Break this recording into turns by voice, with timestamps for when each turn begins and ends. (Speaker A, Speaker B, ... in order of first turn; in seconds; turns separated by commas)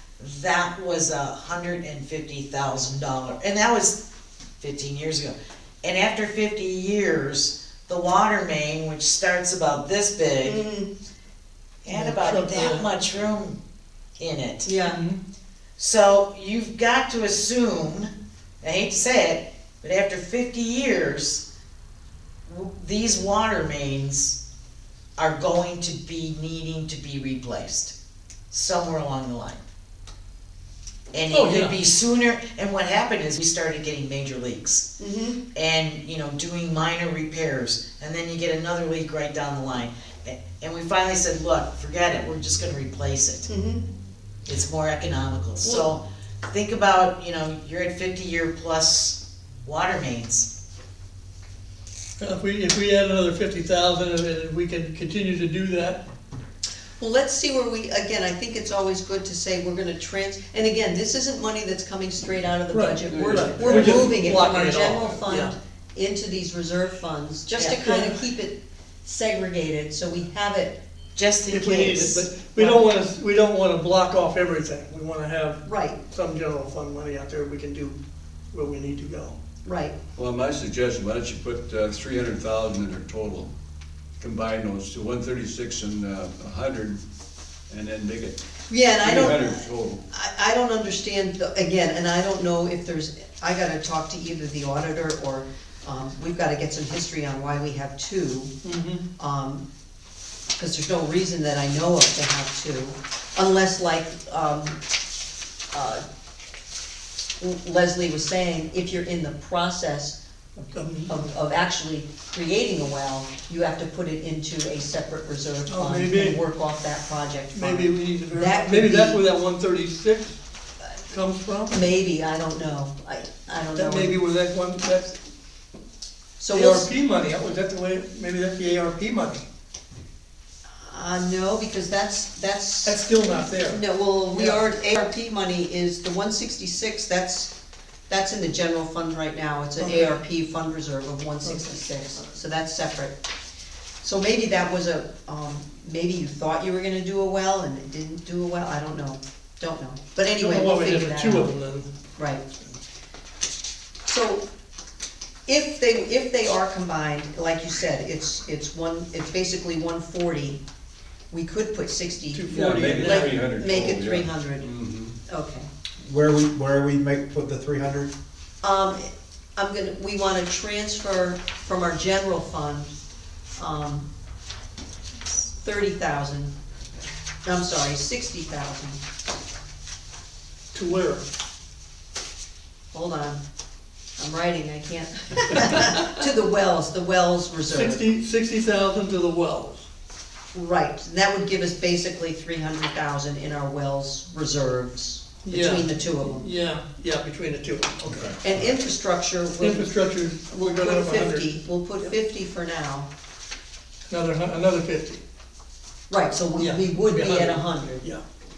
Speaker A: 0.2-4.0, Speaker A: 4.6-10.6, Speaker B: 10.4-10.9, Speaker A: 11.8-13.6, Speaker C: 11.9-12.9, Speaker A: 14.2-14.7, Speaker B: 14.7-15.0, Speaker C: 14.8-15.2, Speaker A: 15.8-18.1, Speaker A: 18.6-21.4, Speaker A: 22.5-24.4, Speaker A: 25.2-27.9, Speaker A: 28.5-29.6, Speaker A: 31.1-34.9, Speaker C: 31.3-31.8, Speaker B: 35.0-35.4, Speaker A: 35.5-43.5, Speaker B: 43.5-43.9, Speaker A: 44.5-50.5, Speaker C: 52.2-56.0, Speaker B: 57.0-70.8, Speaker C: 62.7-65.5, Speaker D: 63.1-64.2, Speaker C: 67.7-68.2, Speaker A: 71.2-72.3, Speaker C: 71.5-78.0, Speaker B: 72.5-72.8, Speaker B: 75.7-76.0, Speaker C: 78.5-79.4, Speaker B: 79.6-80.0, Speaker D: 80.2-83.5, Speaker D: 84.2-87.0, Speaker D: 87.7-88.4, Speaker B: 88.7-98.5, Speaker D: 89.0-90.0, Speaker C: 98.6-99.1, Speaker B: 99.2-99.7, Speaker B: 100.6-104.8, Speaker B: 105.7-106.0, Speaker B: 107.4-119.2, Speaker C: 110.7-111.2, Speaker C: 115.7-116.4, Speaker C: 117.5-120.4, Speaker C: 121.1-121.8, Speaker B: 121.7-124.2, Speaker C: 123.7-125.2, Speaker B: 126.4-126.9, Speaker C: 126.5-129.5, Speaker B: 130.8-137.5, Speaker C: 132.8-133.8, Speaker C: 134.3-134.8, Speaker B: 138.1-143.2, Speaker C: 139.8-140.2, Speaker C: 141.4-142.3, Speaker B: 144.0-151.5, Speaker C: 150.3-151.9, Speaker B: 152.2-152.5, Speaker B: 154.1-154.4, Speaker B: 155.5-160.6, Speaker B: 161.3-164.8, Speaker C: 162.3-163.4, Speaker D: 162.5-165.2, Speaker E: 162.8-163.3, Speaker B: 165.3-165.7, Speaker E: 166.0-168.1, Speaker B: 168.6-172.9, Speaker B: 173.6-174.1, Speaker B: 175.2-176.5, Speaker B: 177.4-179.0, Speaker C: 180.7-181.2, Speaker B: 182.9-183.4, Speaker B: 184.2-188.1, Speaker C: 185.5-186.2, Speaker C: 187.7-189.9, Speaker B: 190.5-196.5, Speaker C: 195.4-198.4, Speaker E: 198.0-198.7, Speaker B: 198.4-203.1, Speaker C: 199.6-202.1, Speaker C: 204.1-205.2, Speaker B: 206.1-208.0, Speaker C: 206.5-208.2